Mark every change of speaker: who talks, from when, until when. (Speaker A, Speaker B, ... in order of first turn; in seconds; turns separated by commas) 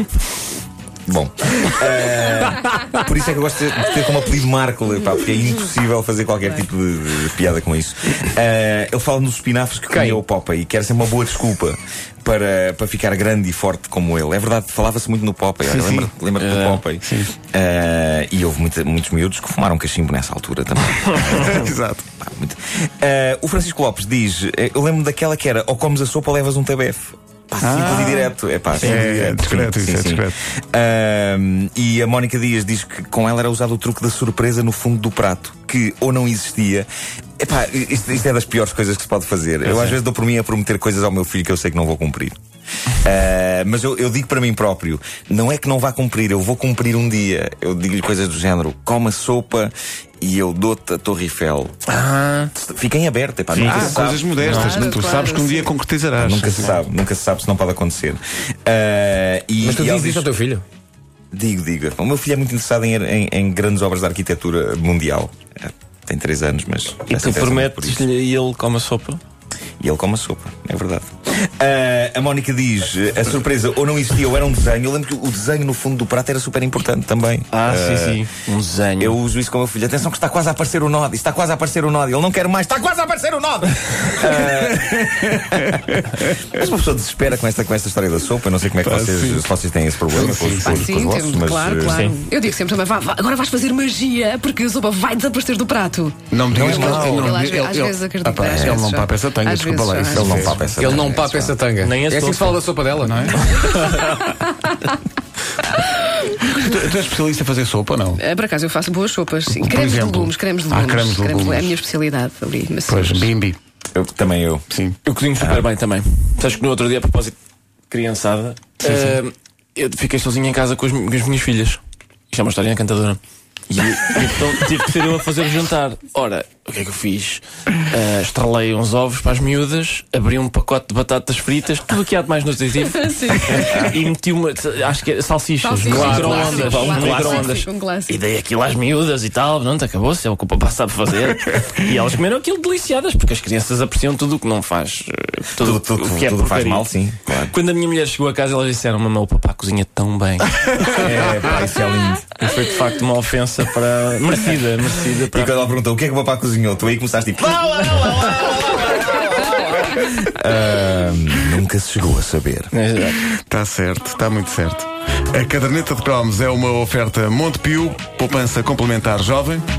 Speaker A: 1.1-36.9, Speaker B: 9.9-10.2, Speaker C: 15.6-16.1, Speaker D: 16.4-16.8, Speaker C: 17.0-17.3, Speaker C: 21.4-22.0, Speaker C: 27.6-30.4, Speaker D: 28.8-29.1, Speaker A: 37.4-42.4, Speaker D: 39.6-40.0, Speaker A: 43.0-51.8, Speaker D: 51.9-52.5, Speaker A: 52.5-54.5, Speaker D: 53.5-54.8, Speaker C: 53.6-56.8, Speaker E: 54.5-55.7, Speaker A: 56.2-60.3, Speaker B: 59.6-60.6, Speaker A: 61.3-68.1, Speaker D: 67.1-69.2, Speaker A: 69.8-78.2, Speaker D: 77.5-79.2, Speaker A: 79.0-92.0, Speaker C: 85.4-86.2, Speaker C: 88.8-89.5, Speaker C: 90.1-90.9, Speaker E: 90.5-100.5, Speaker D: 91.9-92.2, Speaker C: 96.3-100.6, Speaker A: 96.5-97.3, Speaker A: 98.5-98.8, Speaker A: 100.1-101.6, Speaker B: 100.8-103.5, Speaker D: 101.8-102.7, Speaker C: 103.0-103.5, Speaker D: 103.3-104.4, Speaker E: 104.3-104.9, Speaker E: 105.8-106.7, Speaker C: 106.5-108.2, Speaker E: 108.2-113.3, Speaker C: 109.5-111.8, Speaker C: 112.9-113.6, Speaker A: 113.9-114.6, Speaker C: 114.7-115.0, Speaker D: 115.0-117.4, Speaker A: 115.4-115.7, Speaker D: 117.9-123.2, Speaker C: 118.8-119.2, Speaker D: 123.7-146.9, Speaker E: 132.9-133.9, Speaker E: 135.6-138.2, Speaker A: 135.9-137.5, Speaker A: 145.6-147.5, Speaker D: 147.5-151.3, Speaker A: 150.8-152.3, Speaker D: 152.4-155.6, Speaker A: 155.3-162.7, Speaker D: 162.7-163.2, Speaker C: 163.5-169.6